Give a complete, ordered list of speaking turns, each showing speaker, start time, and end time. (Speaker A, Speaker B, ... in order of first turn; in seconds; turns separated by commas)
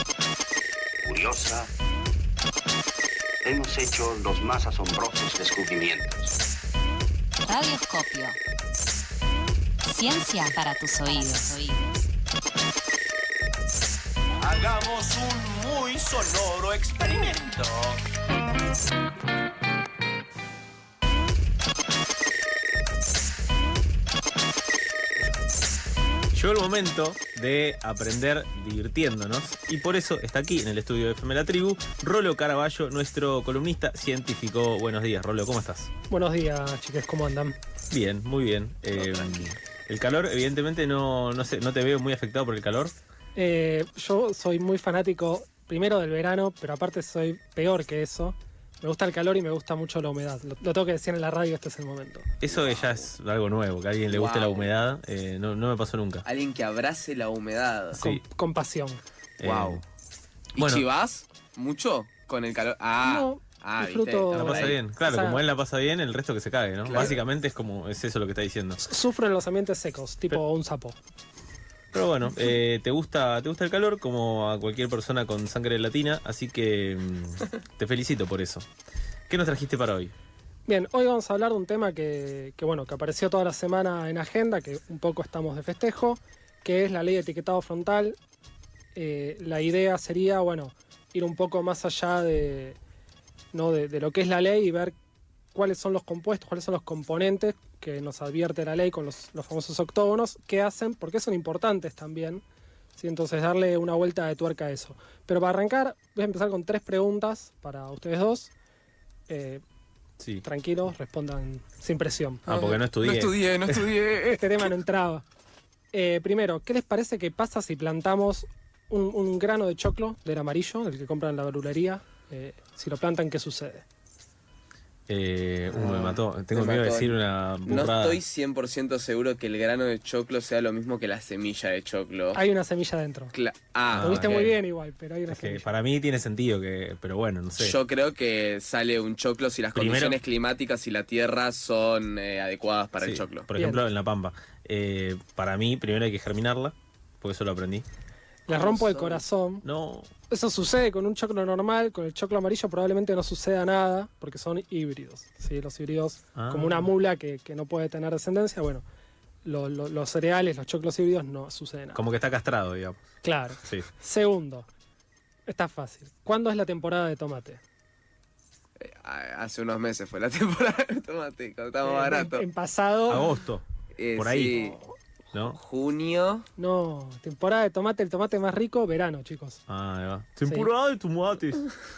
Speaker A: 1.0-1.7, Speaker A: 3.4-6.3, Speaker B: 7.4-8.4, Speaker B: 9.8-11.8, Speaker C: 14.4-18.0, Speaker D: 26.3-35.9, Speaker E: 36.1-37.5, Speaker D: 37.9-43.0, Speaker F: 39.0-39.5, Speaker E: 43.3-52.3, Speaker D: 52.4-56.3, Speaker F: 52.5-53.0, Speaker F: 54.1-54.7, Speaker F: 56.2-58.0, Speaker D: 58.0-58.2, Speaker E: 58.0-59.0, Speaker D: 59.4-59.8, Speaker F: 59.4-59.8, Speaker F: 60.5-64.7, Speaker D: 60.5-60.8, Speaker E: 63.0-65.4, Speaker D: 64.3-68.8, Speaker F: 66.8-67.2, Speaker E: 68.8-71.0, Speaker D: 71.9-78.7, Speaker D: 79.3-80.1, Speaker E: 80.7-88.2, Speaker E: 88.9-92.8, Speaker E: 93.5-94.9, Speaker E: 95.5-102.4, Speaker E: 103.0-108.5, Speaker E: 109.3-109.6, Speaker E: 110.4-112.4, Speaker D: 112.5-113.8, Speaker F: 112.5-114.7, Speaker E: 114.3-115.2, Speaker E: 115.9-123.8, Speaker D: 125.1-128.2, Speaker F: 125.7-132.4, Speaker E: 132.3-133.3, Speaker F: 133.3-134.5, Speaker D: 133.9-134.6, Speaker E: 134.0-135.7, Speaker D: 135.3-137.8, Speaker F: 137.6-143.5, Speaker D: 139.8-140.2, Speaker D: 143.0-147.8, Speaker E: 143.6-143.8, Speaker E: 148.5-149.7, Speaker F: 148.5-149.2, Speaker D: 149.6-150.1, Speaker E: 150.3-158.8, Speaker D: 156.3-156.9, Speaker E: 159.4-162.0, Speaker D: 161.9-163.1, Speaker E: 163.2-164.7, Speaker E: 165.5-167.6, Speaker F: 168.8-172.5, Speaker E: 171.8-173.2, Speaker D: 173.1-174.6, Speaker F: 173.9-174.8, Speaker E: 174.5-174.9, Speaker F: 175.4-176.5, Speaker E: 176.6-179.6, Speaker D: 179.7-181.7